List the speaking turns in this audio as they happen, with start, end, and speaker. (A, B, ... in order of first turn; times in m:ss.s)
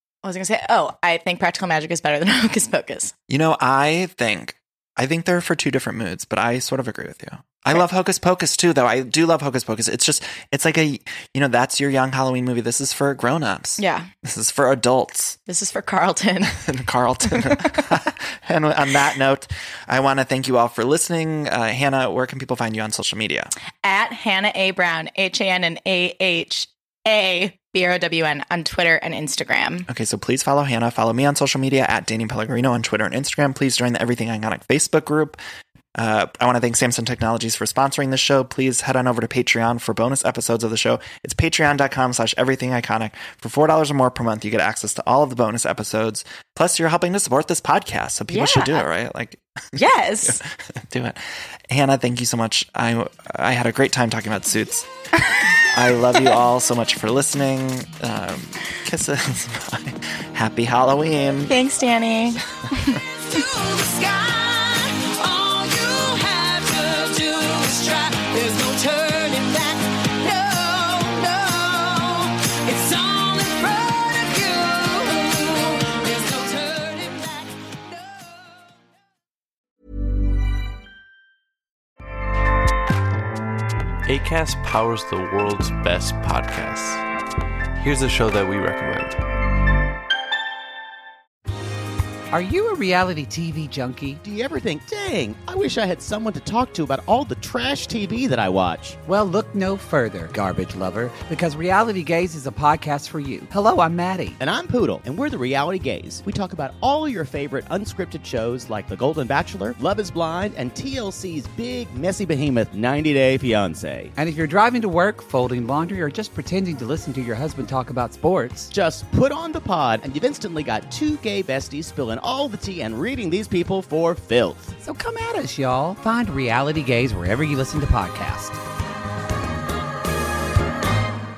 0:00.2-0:03.1 A
0:03.3-0:15.4 B
0:13.8-0:14.1 A
0:15.5-0:16.6 A
0:16.5-0:23.5 B
0:23.8-0:29.9 A
0:29.9-0:35.4 B
0:36.0-0:54.9 B
0:48.3-0:48.9 A
0:49.8-0:50.4 A
0:55.7-1:01.6 B
1:01.5-1:03.0 A
1:03.3-1:18.2 C
1:24.0-1:27.0 D
1:27.8-1:29.2 D
1:32.3-1:34.2 E
1:34.2-1:39.0 F
1:39.0-1:44.4 E
1:44.4-1:54.1 F
1:54.2-1:58.7 E
1:58.7-2:04.8 F
2:04.8-2:08.6 E